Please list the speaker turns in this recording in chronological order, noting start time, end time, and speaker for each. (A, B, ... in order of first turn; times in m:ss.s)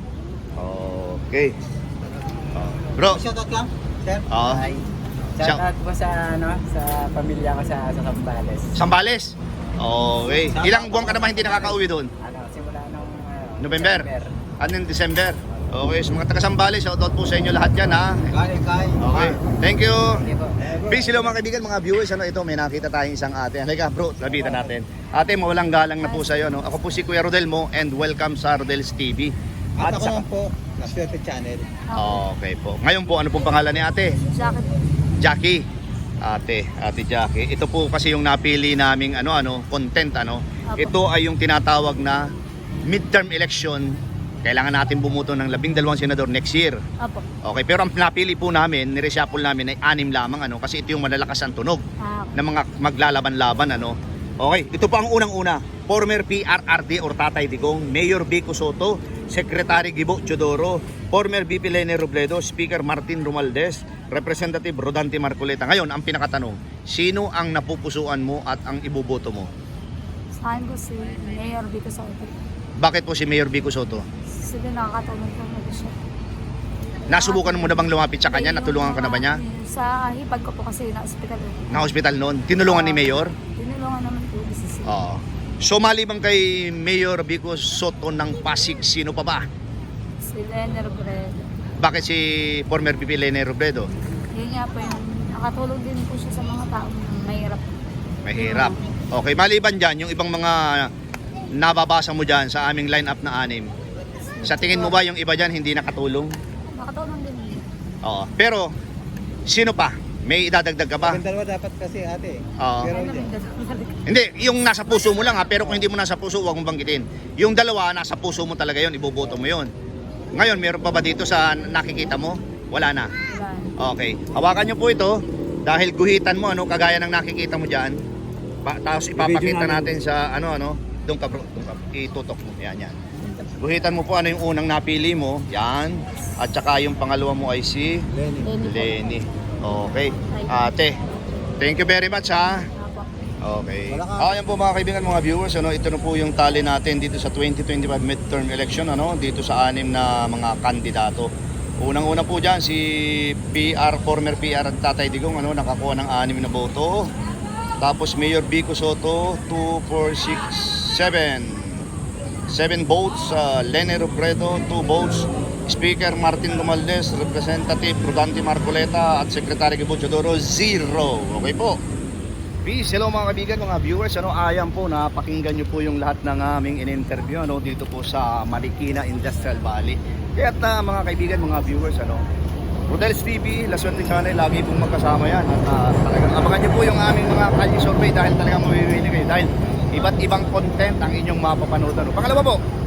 0:00.6-0:01.6 A
0:02.6-0:03.2 A
0:03.0-0:04.3 B
0:04.3-0:04.7 A
0:04.4-0:08.8 C
0:08.8-0:12.1 A
0:10.5-0:11.1 B
0:11.0-0:14.4 C
0:13.6-0:18.3 A
0:18.3-0:19.4 B
0:19.0-0:20.3 A
0:20.1-0:21.0 C
0:20.6-0:21.2 B
0:20.9-0:30.2 A
0:24.3-0:24.6 B
0:26.0-0:26.3 D
0:29.8-0:31.7 B
0:31.9-0:32.2 D
0:32.0-0:34.2 A
0:34.3-0:34.8 D
0:35.2-0:35.7 A
0:36.2-0:42.3 A
0:42.8-0:46.8 A
0:47.0-0:47.2 D
0:47.4-0:51.8 A
0:52.0-0:52.4 D
0:52.4-1:09.5 A
1:10.4-1:12.3 D
1:12.8-1:14.0 A
1:14.3-1:16.0 D
1:17.1-1:19.4 A
1:17.1-1:21.9 D
1:21.7-1:23.4 A
1:22.6-1:25.0 D
1:24.8-1:29.5 A
1:30.2-1:31.5 D
1:31.8-1:33.9 A
1:34.3-1:37.6 D
1:38.2-1:40.9 A
1:38.4-1:38.8 D
1:41.5-1:43.7 A
1:44.3-1:45.0 D
1:44.4-1:46.4 A
1:46.7-1:47.7 D
1:48.0-1:48.7 A
1:49.5-1:51.2 A
1:51.0-1:53.3 B
1:52.6-1:53.0 A
1:52.9-1:54.0 D
1:54.1-1:59.7 A
2:00.4-2:03.1 A
2:03.3-2:03.8 D
2:03.8-2:08.0 A
2:08.6-2:13.0 A
2:09.2-2:10.0 B
2:13.6-2:18.1 A
2:18.1-2:18.6 B
2:18.4-2:19.2 D
2:18.6-2:21.0 A
2:20.3-2:20.7 D
2:21.6-2:22.7 A
2:22.8-2:23.3 D
2:23.4-2:37.1 A
2:23.9-2:24.4 B
2:37.8-2:41.9 A
2:42.5-2:51.8 A
2:52.6-3:02.3 A
3:02.9-3:12.6 A